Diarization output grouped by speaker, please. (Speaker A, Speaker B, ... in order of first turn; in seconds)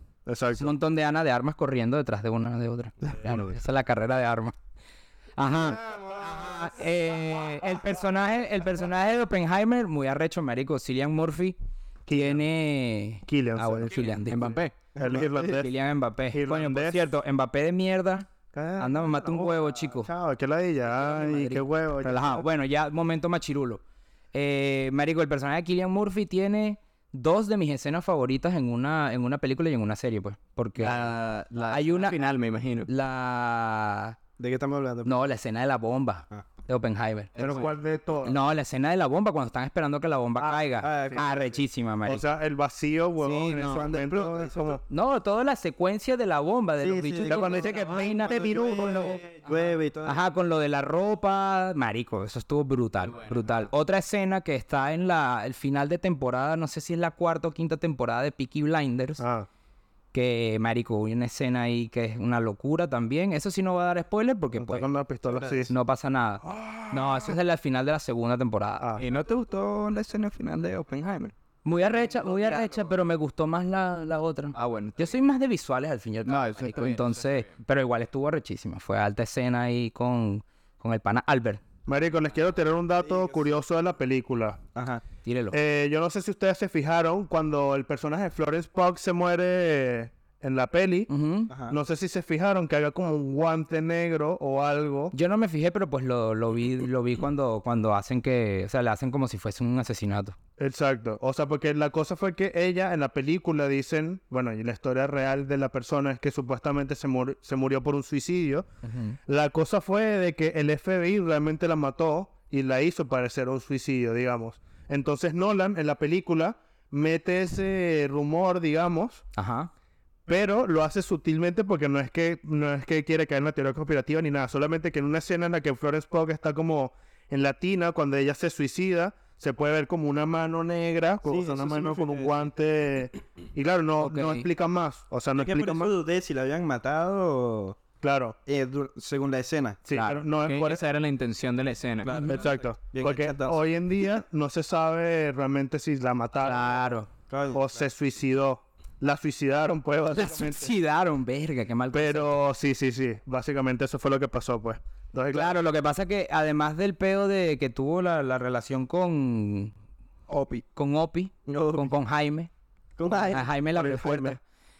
Speaker A: 0.2-0.7, 12.1-12.4, 13.3-14.1, 14.9-15.7, 16.3-17.0, 20.0-22.4, 37.4-38.4, 40.4-41.2, 42.0-44.8, 47.2-49.2, 59.2-59.5, 64.6-65.7, 66.4-67.3, 68.8-69.0, 81.8-84.6, 85.5-91.1, 91.7-95.1, 100.6-108.7, 109.2-119.2, 120.3-135.9, 138.0-138.3, 139.8-140.8, 142.3-146.7, 147.5-150.7, 151.9-155.6, 163.7-164.4
Speaker B: 0.6-4.5, 5.4-11.6, 12.1-14.6, 15.4-20.1, 20.9-23.8, 24.3-31.1, 31.7-32.2, 32.9-34.2, 35.0-37.6, 38.2-42.2, 43.2-43.8, 44.9-48.8, 50.0-59.2, 60.1-64.8, 65.7-68.9, 71.6-81.6, 85.2-85.6, 91.1-91.5, 95.1-100.3, 108.8-109.2, 119.3-119.7, 134.0-134.4, 139.9-140.2, 142.2-142.4, 146.4-147.1, 150.1-152.3, 155.3-159.7, 160.7-162.5, 163.3-164.4
Speaker C: 3.0-3.6, 5.9-6.7, 15.0-15.4, 18.5-19.8, 34.4-35.1, 40.8-41.6, 43.6-44.8, 46.8-47.7, 48.2-50.2, 83.0-83.4, 84.8-85.0, 91.5-91.8, 131.2-132.4, 135.4-137.8, 138.4-139.8, 142.0-143.6, 147.3-147.8, 161.5-161.9, 163.0-163.5
Speaker D: 14.2-14.7, 30.8-32.9, 69.0-71.3, 74.5-75.2, 76.2-77.5, 140.4-142.3, 160.3-160.6